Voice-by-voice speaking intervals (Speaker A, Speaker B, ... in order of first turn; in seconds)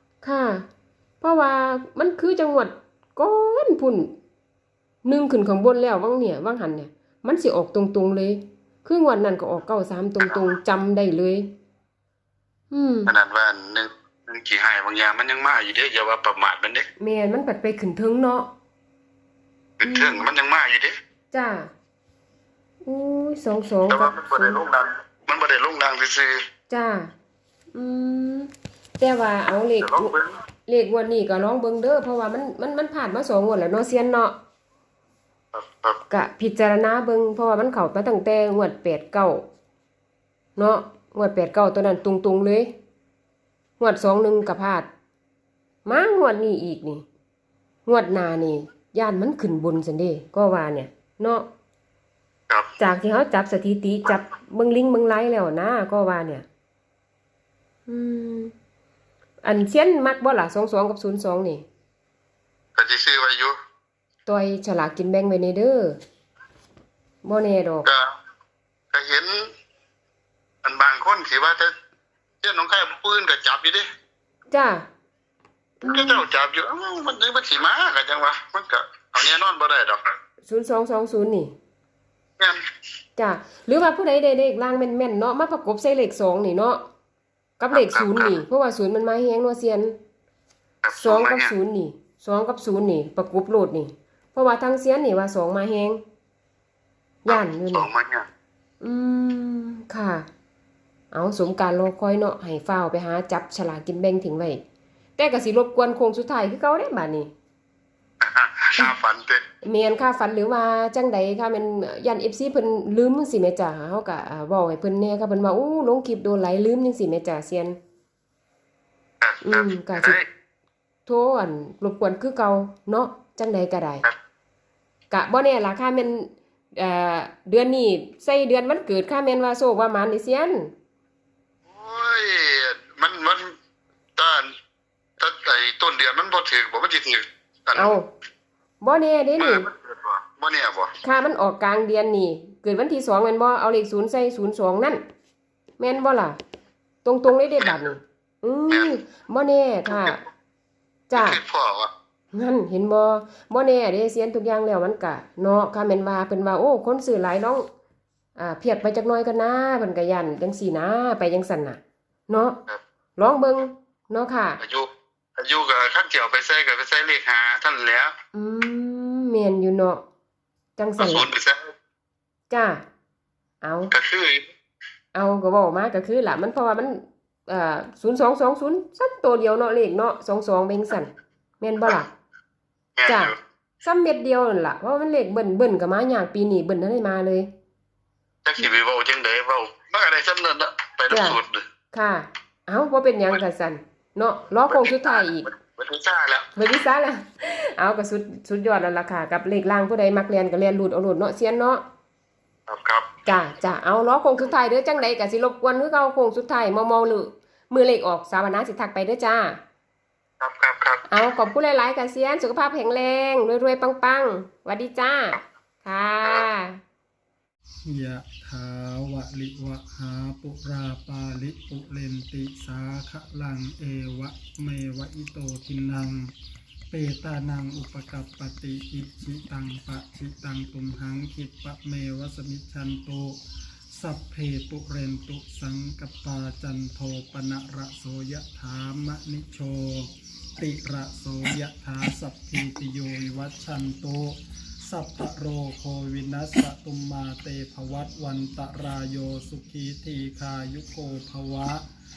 Speaker A: 0.2-0.6, 1.2-4.1, 5.0-11.5, 12.7-13.1, 17.0-18.5, 19.8-20.2, 21.3-21.7, 22.8-24.6, 26.7-27.1, 27.8-30.1, 30.6-34.4, 36.1-39.4, 40.6-42.7, 43.8-44.9, 45.8-47.0, 47.9-51.5, 52.8-56.4, 57.9-58.5, 59.4-61.6, 64.2-66.0, 67.2-67.9, 74.5-74.8, 75.8-76.2, 80.5-81.5, 83.2-86.8, 87.6-89.9, 90.9-96.0, 97.2-97.9, 98.8-100.2, 101.1-104.6, 105.2-107.3, 109.6-117.8, 119.4-120.2, 121.1-124.0, 125.1-130.7, 137.8-138.0, 138.8-139.7, 141.0-145.0, 145.8-146.4, 147.0-150.2, 151.1-151.4, 152.3-157.6, 158.4-162.6, 163.2-164.6, 168.3-170.0, 170.8-171.2, 172.5-172.8, 173.6-173.9, 175.1-182.1, 183.1-187.5, 191.1-191.4, 191.9-195.5, 196.6-201.8, 203.3-209.6, 211.1-216.8
Speaker B: 13.1-16.8, 19.8-20.9, 23.9-26.4, 29.8-30.3, 35.5-36.0, 62.8-63.5, 68.9-69.3, 70.6-71.7, 72.4-73.8, 75.8-80.0, 87.7-88.3, 90.8-91.5, 97.3-98.2, 108.2-109.4, 119.2-120.2, 131.7-133.5, 134.2-134.4, 135.2-138.0, 139.4-140.9, 148.7-149.0, 149.9-150.2, 151.1-151.9, 164.6-168.1, 171.0-171.7, 173.9-174.4, 182.9-183.3, 188.4-191.6, 194.7-196.5, 202.7-203.1, 210.4-211.0
Speaker C: 217.8-226.3, 226.9-233.3, 233.9-251.8